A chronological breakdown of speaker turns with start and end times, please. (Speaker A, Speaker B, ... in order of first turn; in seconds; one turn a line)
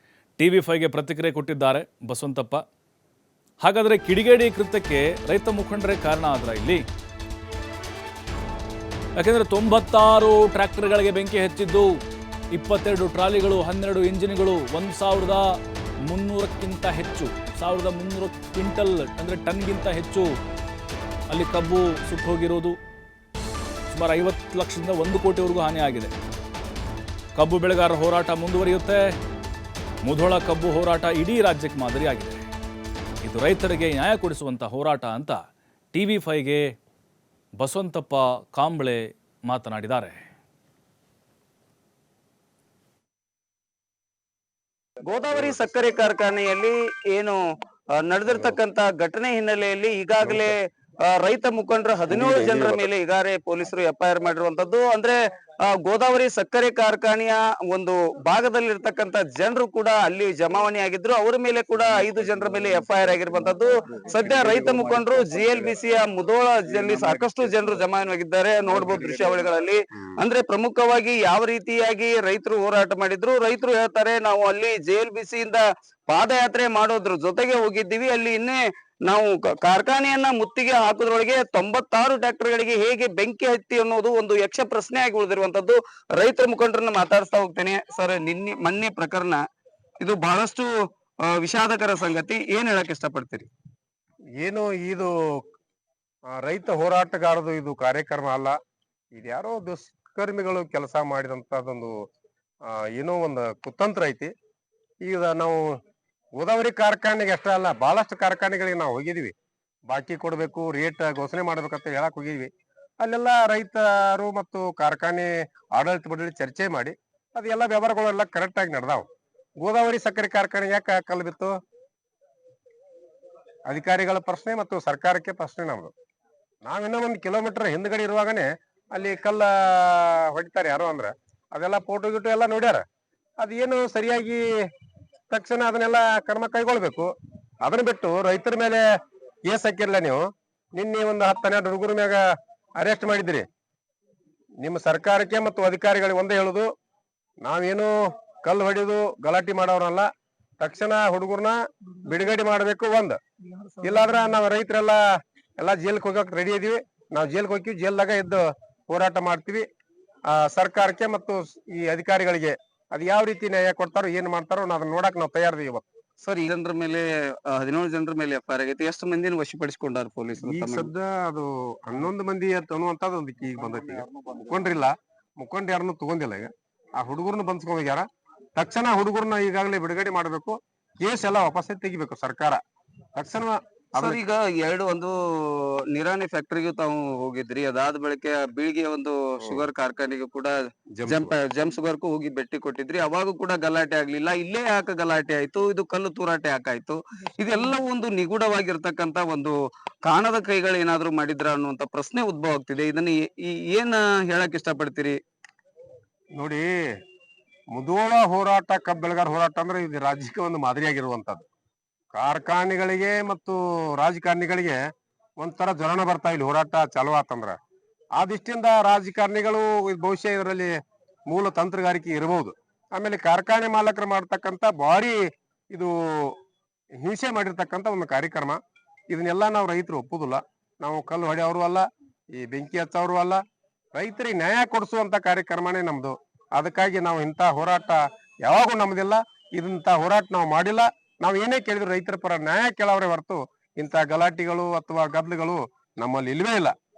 Speaker A: 0.4-2.6
Speaker A: 3.6-6.8
Speaker A: 9.2-11.9
Speaker A: 12.5-20.3
Speaker A: 21.3-22.8
Speaker A: 23.9-26.1
Speaker A: 27.4-29.1
Speaker A: 30.0-32.4
Speaker A: 33.2-35.4
Speaker A: 35.9-36.6
Speaker A: 37.6-40.2
Speaker B: 45.0-47.4
Speaker C: 45.3-45.6
Speaker B: 48.0-50.6
Speaker C: 50.2-50.5
Speaker B: 51.1-55.1
Speaker C: 52.1-52.8
Speaker B: 55.7-89.4
Speaker C: 64.1-65.1
Speaker C: 67.0-67.4
Speaker B: 90.0-90.7
Speaker B: 91.3-93.5
Speaker C: 94.4-95.1
Speaker C: 96.3-98.5
Speaker C: 99.1-101.9
Speaker C: 102.7-104.3
Speaker C: 105.0-105.8
Speaker C: 106.3-109.3
Speaker C: 109.9-112.5
Speaker C: 113.0-119.0
Speaker C: 119.6-121.6
Speaker C: 123.7-125.9
Speaker C: 126.6-132.8
Speaker C: 133.4-134.5
Speaker C: 135.3-137.1
Speaker C: 137.6-138.8
Speaker C: 139.5-140.2
Speaker C: 140.8-142.2
Speaker C: 142.8-143.4
Speaker C: 144.6-146.7
Speaker C: 147.4-150.1
Speaker C: 150.6-153.2
Speaker C: 153.8-155.0
Speaker C: 155.6-159.6
Speaker C: 160.3-165.8
Speaker B: 166.2-170.9
Speaker C: 170.4-178.0
Speaker B: 173.7-174.6
Speaker C: 178.6-182.6
Speaker C: 183.2-184.2
Speaker B: 184.0-190.5
Speaker C: 189.4-189.7
Speaker C: 190.9-191.3
Speaker B: 191.1-205.2
Speaker C: 206.3-206.7
Speaker C: 207.7-211.4
Speaker C: 212.1-214.8
Speaker C: 215.4-217.6
Speaker C: 218.2-220.7
Speaker C: 221.3-225.2
Speaker C: 225.7-226.3
Speaker C: 227.0-231.8
Speaker C: 232.3-233.4
Speaker C: 233.9-246.7